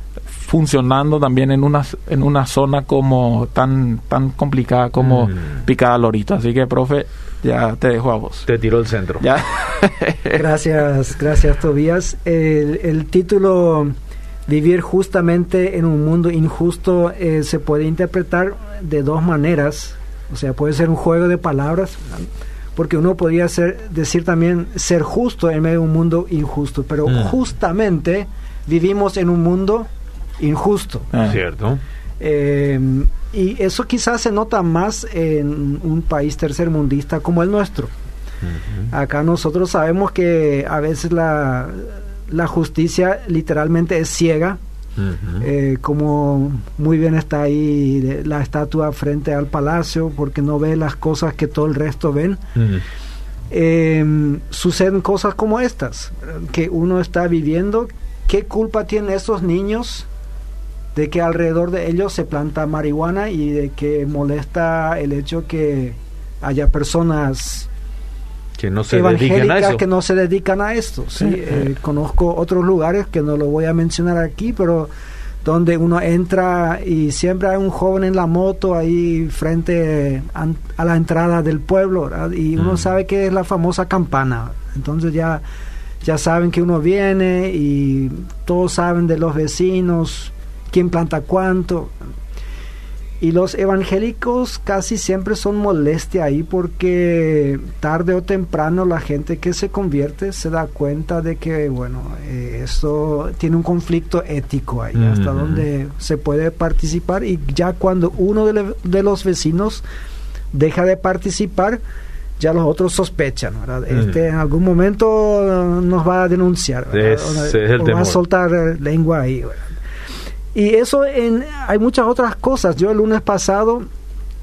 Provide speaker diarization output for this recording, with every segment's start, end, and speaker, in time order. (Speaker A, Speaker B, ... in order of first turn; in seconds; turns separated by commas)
Speaker A: 0.3-8.5, Speaker B: 5.0-5.3, Speaker B: 8.5-9.2, Speaker A: 9.2-10.4, Speaker C: 10.3-13.9, Speaker C: 14.5-29.9, Speaker B: 27.1-27.3, Speaker C: 30.4-31.1, Speaker A: 31.1-31.4, Speaker B: 31.2-31.8, Speaker C: 32.2-37.9, Speaker B: 38.4-38.9, Speaker C: 38.9-44.6, Speaker B: 45.0-45.5, Speaker C: 45.4-52.4, Speaker B: 52.5-52.8, Speaker C: 53.5-60.1, Speaker C: 60.9-67.7, Speaker B: 68.6-69.8, Speaker C: 68.9-74.9, Speaker C: 75.4-85.4, Speaker B: 82.6-82.8, Speaker C: 86.0-91.9, Speaker C: 93.2-109.8, Speaker B: 105.0-105.6, Speaker C: 110.5-111.8, Speaker C: 112.4-119.7, Speaker B: 116.9-118.2, Speaker C: 120.5-123.8